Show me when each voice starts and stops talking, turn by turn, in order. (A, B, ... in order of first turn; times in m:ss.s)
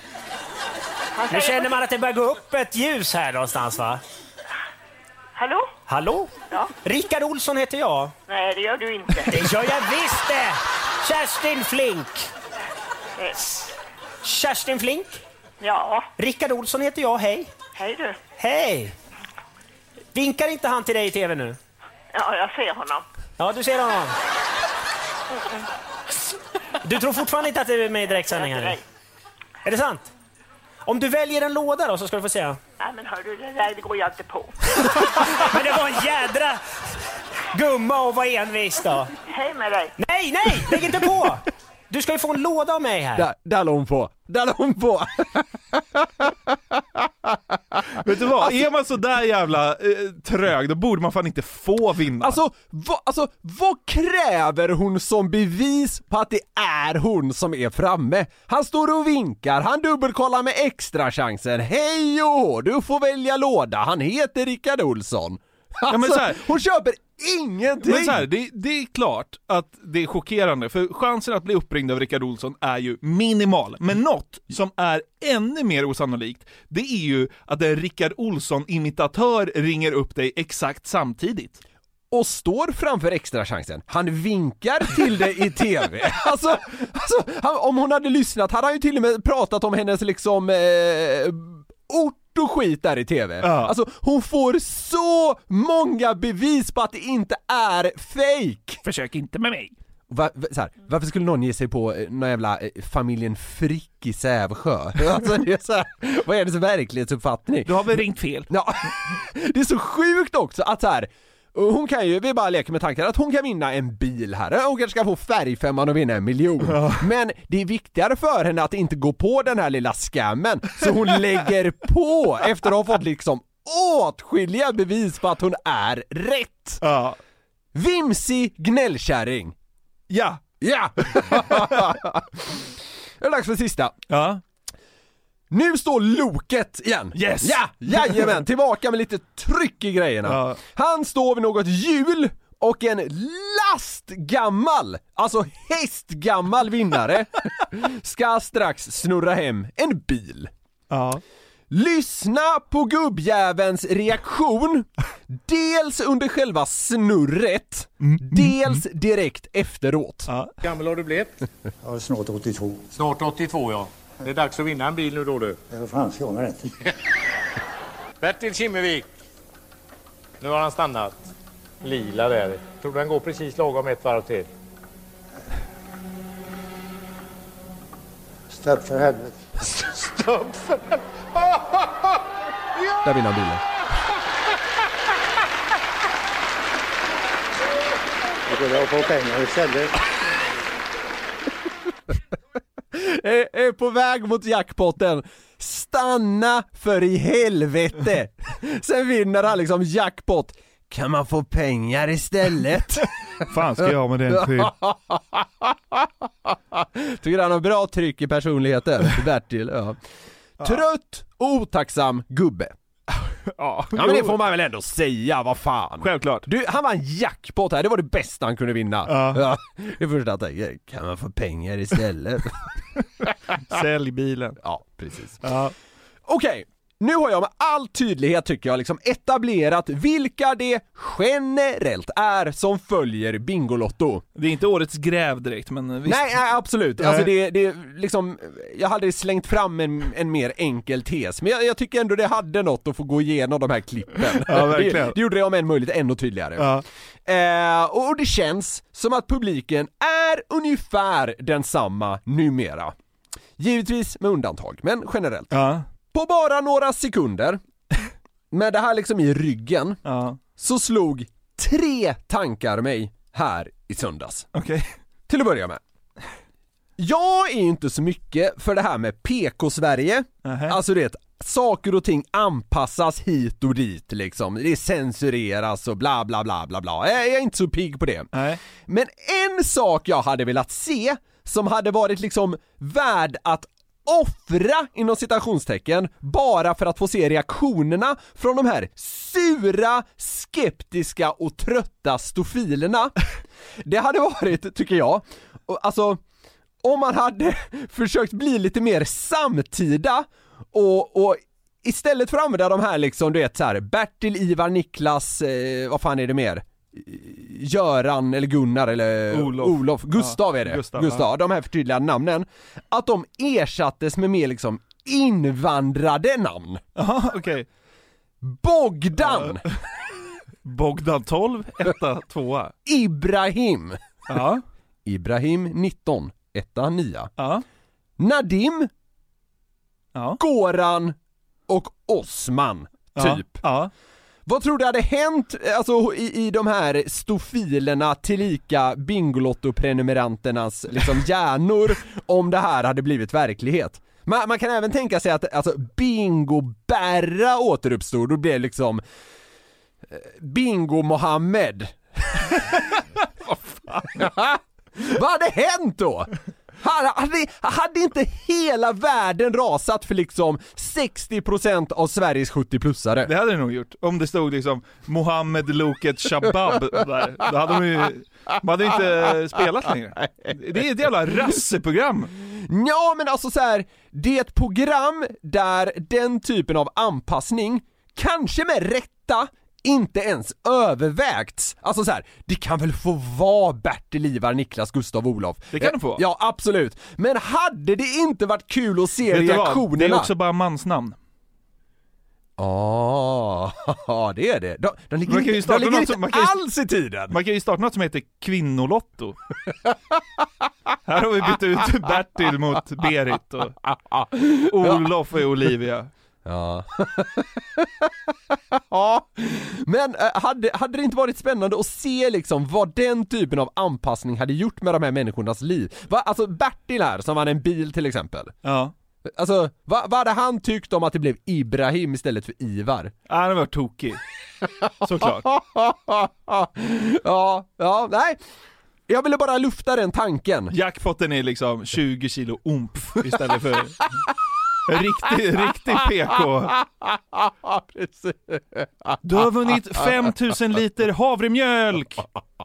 0:01.2-0:01.8 A
0:01.3-0:04.0 B
0:05.4-0:05.7 A
0:05.9-0:08.1 B
0:08.3-0:09.5 A
0:09.3-0:12.3 B
0:14.2-0:15.2 B
0:15.6-0:16.1 A
0:16.2-0:17.5 B
0:17.7-0:18.2 A
0:18.4-0:18.9 B
0:20.1-0:21.6 B
0:22.1-0:23.0 A
0:23.4-0:24.2 B
0:26.8-0:28.8 B
0:28.1-0:28.8 A
0:29.6-0:30.1 B
0:30.8-0:32.6 B
0:32.8-0:34.5 A
0:34.8-0:36.6 B
0:37.5-0:39.1 B
0:39.3-0:39.9 A
0:40.0-0:43.2 B
0:43.2-0:48.5 C
0:48.0-0:52.4 D
0:52.2-1:08.2 C
1:05.9-1:06.4 D
1:07.8-1:21.6 D
1:22.1-1:38.8 C
1:33.4-1:33.7 D
1:38.8-1:39.7 D
1:40.1-1:47.8 C
1:47.6-1:48.5 D
1:48.5-2:06.8 C
1:56.6-1:57.1 D
2:06.8-2:07.2 D
2:07.7-2:09.5 C
2:10.1-2:10.4 D
2:10.6-2:12.6 C
2:11.1-2:11.8 D
2:13.2-2:14.0 C
2:14.1-2:14.4 D
2:15.5-2:30.5 C
2:17.1-2:18.3 D
2:20.2-2:20.6 D
2:30.9-2:31.2 D
2:31.7-2:40.3 C
2:38.0-2:38.8 D
2:40.3-2:40.5 D
2:40.6-2:41.3 E
2:41.8-2:42.9 F
2:43.0-2:45.6 E
2:45.7-2:46.7 F
2:48.2-2:49.0 E
2:50.4-2:51.2 E
2:51.8-2:54.5 E
2:58.5-2:59.4 F
3:00.1-3:00.8 E
3:03.0-3:03.6 C
3:08.5-3:09.9 F
3:12.9-3:23.1 C
3:23.4-3:24.7 D
3:24.3-3:30.0 C
3:30.6-3:32.7 C
3:33.5-3:34.4 D
3:33.9-3:42.6 C
3:36.0-3:36.5 D
3:39.1-3:39.4 D
3:43.5-3:44.6 D
3:44.6-3:45.4 C
3:45.4-3:45.7 D
3:46.2-3:54.2 C
3:54.4-3:56.4 D
3:56.0-4:12.9 C
3:57.0-3:57.3 D
4:04.3-4:05.2 D
4:06.6-4:06.8 D
4:13.6-4:15.5 C
4:15.5-4:15.8 D
4:16.1-4:17.6 C
4:18.5-4:20.0 C
4:20.0-4:20.4 D
4:20.6-4:24.5 C
4:24.5-4:24.9 D
4:25.3-4:25.8 C
4:27.0-4:38.3 C
4:30.4-4:30.8 D
4:38.3-4:38.6 D
4:38.9-4:53.1 C
4:53.8-4:56.2 C
4:56.8-5:16.8 C
5:09.3-5:11.3 D
5:17.0-5:17.7 D
5:18.4-5:19.6 C
5:19.2-5:19.7 D
5:20.6-5:22.7 D
5:22.8-5:24.3 C
5:24.3-5:24.6 D
5:25.0-5:27.3 C
5:27.4-5:27.6 D
5:28.2-5:28.9 C
5:30.1-5:30.4 D
5:30.4-5:31.2 C
5:31.7-5:33.6 C
5:33.1-5:33.9 D
5:34.4-5:49.0 C
5:50.1-5:52.6 C
5:54.1-6:03.3 C
6:03.2-6:12.3 D
6:12.5-6:30.3 C
6:25.7-6:26.2 D
6:29.3-6:31.2 D
6:32.6-6:37.4 C
6:35.3-6:36.6 D
6:37.3-6:39.4 D
6:41.1-6:43.8 D
6:43.9-6:45.0 C
6:44.6-6:46.1 D
6:46.4-6:58.5 C
6:58.6-6:58.9 D
6:59.2-7:03.1 C
7:03.3-7:04.2 D
7:05.0-7:05.5 D
7:05.2-7:08.4 C
7:09.1-7:10.8 C
7:10.7-7:14.1 D
7:14.9-7:16.8 D
7:16.7-7:19.2 C
7:19.2-7:22.2 D